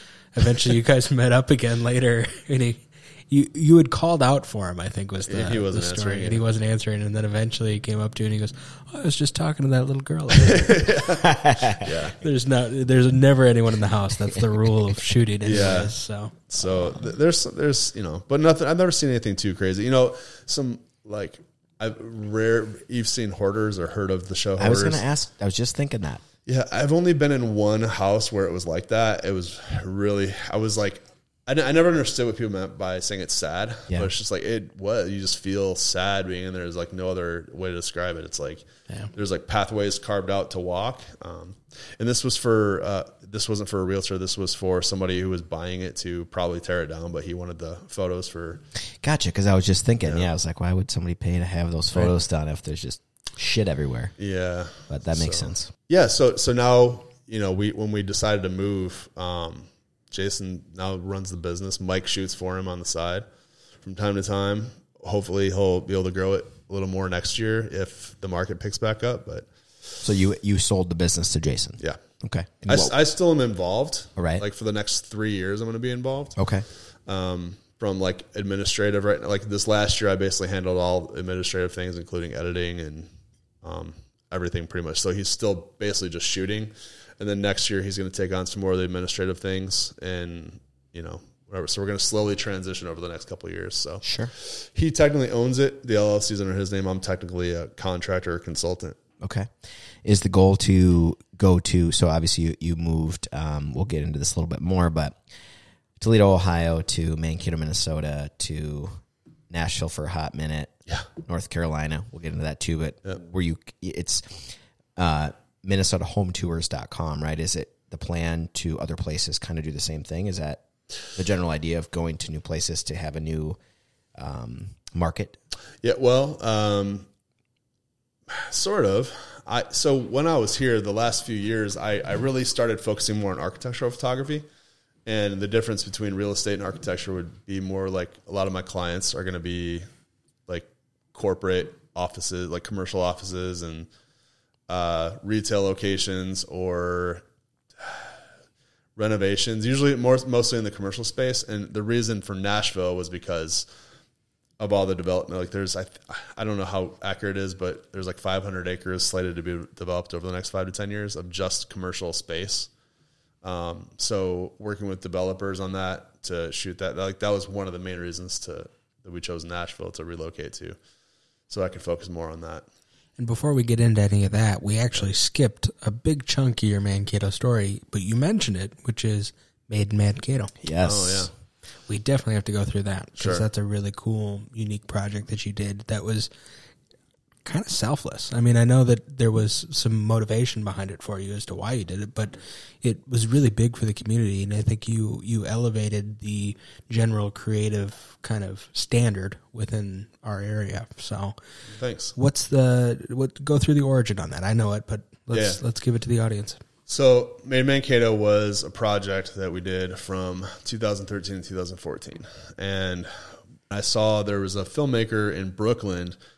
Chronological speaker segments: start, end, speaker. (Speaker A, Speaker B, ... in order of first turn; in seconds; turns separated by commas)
Speaker A: 0.3-11.1, Speaker B: 5.3-6.4, Speaker B: 10.4-12.2, Speaker C: 11.2-11.8, Speaker A: 12.2-16.4, Speaker B: 15.4-15.9, Speaker B: 16.5-25.0, Speaker C: 24.6-26.2, Speaker B: 26.4-48.6, Speaker C: 49.0-54.1, Speaker B: 54.2-63.2, Speaker C: 54.9-55.7, Speaker B: 63.8-69.5, Speaker C: 70.0-72.9, Speaker B: 72.7-76.4, Speaker C: 74.2-74.4, Speaker C: 76.4-76.7, Speaker B: 77.0-83.1, Speaker B: 83.6-99.0, Speaker C: 94.0-94.3, Speaker C: 99.2-99.5, Speaker C: 100.0-105.2, Speaker C: 106.0-123.6, Speaker C: 124.2-125.4, Speaker B: 125.8-127.1, Speaker B: 128.3-134.4, Speaker B: 135.1-139.8, Speaker B: 140.5-143.9, Speaker B: 144.7-147.2, Speaker B: 147.8-148.1, Speaker B: 148.9-153.7, Speaker B: 154.6-162.7, Speaker B: 163.4-170.8, Speaker B: 171.5-172.6, Speaker A: 173.2-180.5, Speaker C: 180.6-181.3, Speaker B: 180.8-181.3, Speaker A: 181.9-186.3, Speaker B: 183.2-183.4, Speaker A: 187.4-201.3, Speaker B: 201.7-202.1, Speaker A: 202.2-206.6, Speaker B: 205.3-205.6, Speaker B: 206.9-213.1, Speaker B: 213.7-216.2